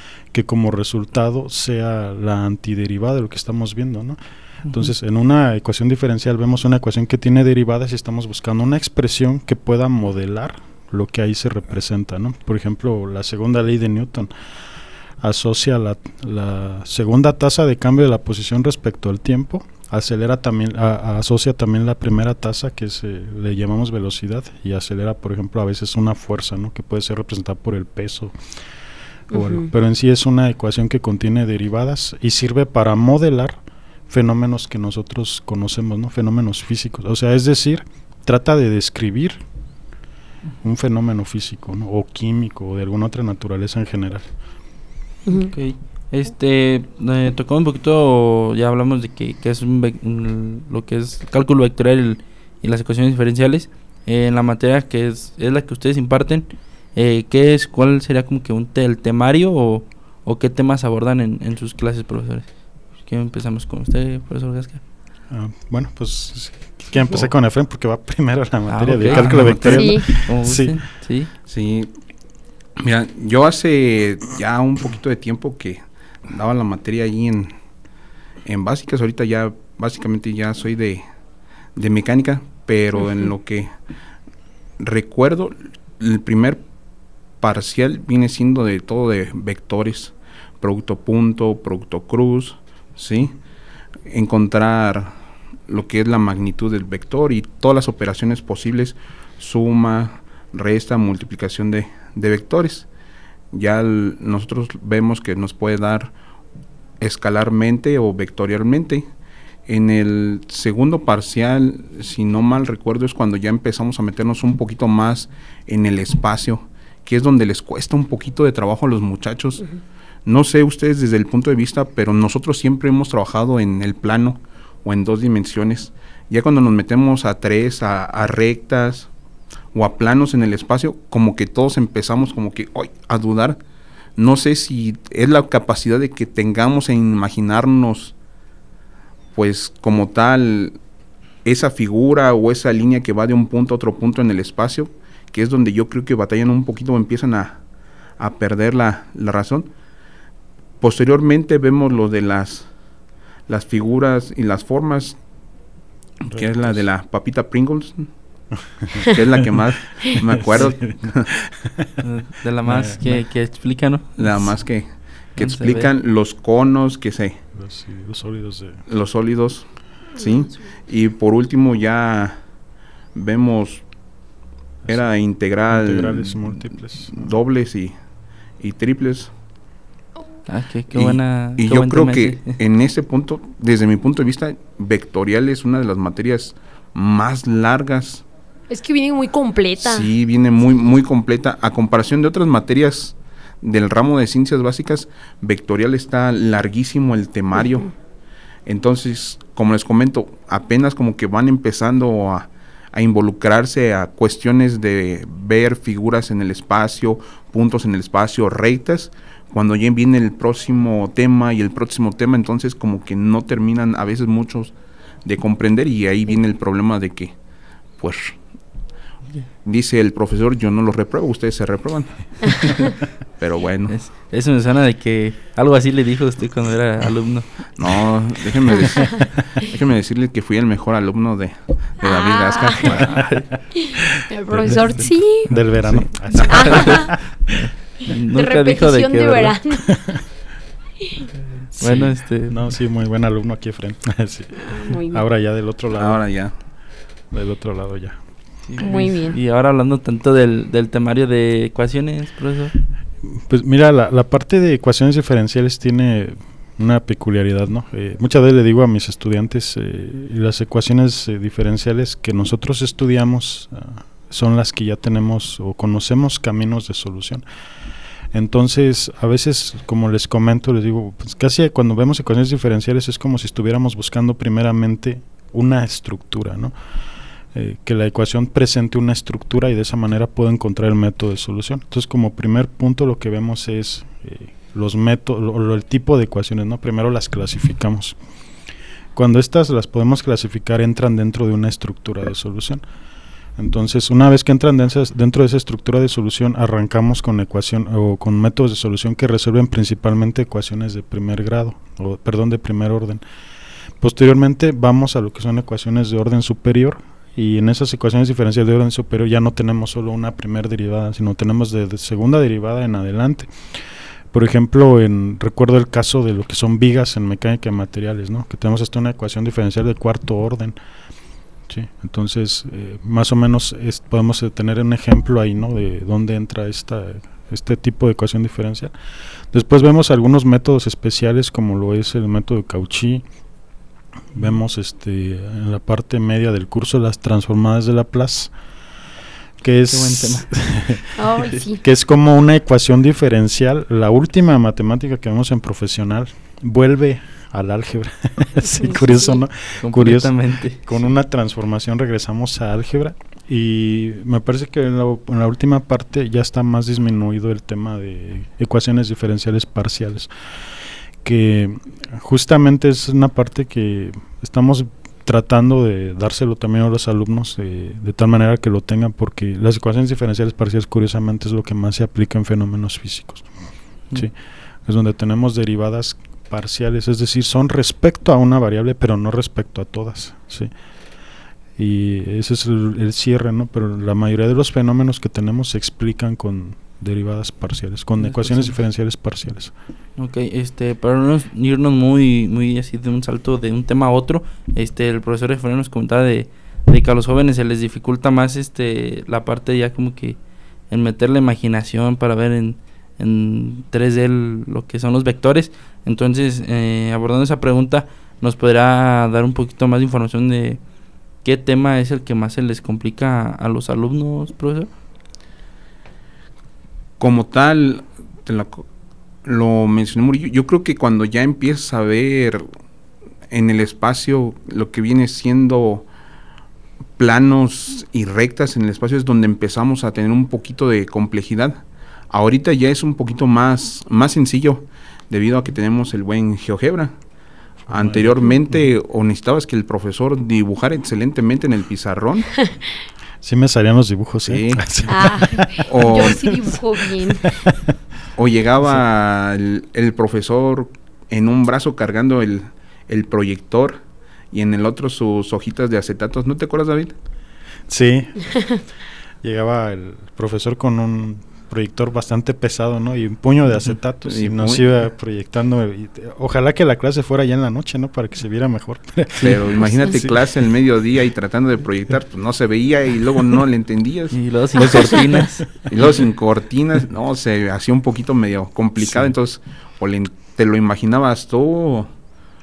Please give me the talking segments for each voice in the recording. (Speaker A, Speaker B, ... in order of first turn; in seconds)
Speaker A: 0.3-14.3, 15.2-28.4, 29.3-39.4, 40.6-44.3, 65.3-70.8, 156.3-156.9, 158.8-159.1, 160.2-161.9, 162.7-163.2, 167.6-168.8, 175.7-177.3, 234.5-237.7, 241.8-246.2, 247.3-248.2, 253.2-267.4, 268.3-276.7, 277.5-288.2, 289.1-292.8, 293.6-303.2, 304.0-313.8, 314.3-320.8, 321.7-328.9, 329.5-333.2, 334.3-338.5, 339.6-341.2, 341.7-360.3, 361.2-373.5, 374.9-380.7, 381.8-389.7, 437.9-438.6, 443.4-447.9, 457.9-458.8, 459.4-470.1
Speaker B: 29.3-29.7, 45.3-45.5, 69.7-70.1, 188.7-190.1, 232.0-232.9, 233.8-235.5, 236.5-237.1, 238.3-239.8, 244.6-245.2, 248.8-249.4, 341.2-341.8, 348.8-349.4, 445.1-447.5
Speaker C: 45.5-62.5, 63.0-64.8, 68.7-71.3, 162.0-164.5, 165.4-165.9, 180.5-182.6, 223.9-227.7, 232.9-233.5, 236.3-237.5, 238.1-239.6, 241.8-242.6, 248.7-252.8, 339.9-340.5, 349.8-350.9, 388.2-388.7, 390.2-400.4, 400.9-410.8, 411.4-414.9, 469.4-470.3, 474.3-475.9
Speaker D: 69.1-69.9, 71.5-71.9, 72.8-77.5, 78.5-81.0, 81.8-83.7, 84.8-86.6, 87.4-93.4, 94.1-95.1, 95.7-102.9, 103.5-106.1, 107.0-109.1, 109.7-119.7, 120.2-129.1, 129.7-133.6, 134.2-138.1, 139.3-140.8, 141.4-147.6, 148.2-149.7, 150.8-152.7, 153.5-155.2, 156.3-158.1, 159.0-161.3, 164.2-167.4, 168.9-172.4, 173.1-173.8, 174.9-177.9, 178.6-179.3, 180.9-188.2, 189.8-197.9, 198.7-214.7, 215.2-217.3, 218.0-218.3, 219.7-223.9, 227.8-233.2, 235.9-236.6, 245.9-246.5, 417.2-418.9, 419.4-422.7, 423.5-426.1, 427.2-437.1, 437.9-442.6, 444.5-445.1, 445.9-446.5, 448.4-454.0, 454.5-457.1, 464.3-464.8, 469.4-482.1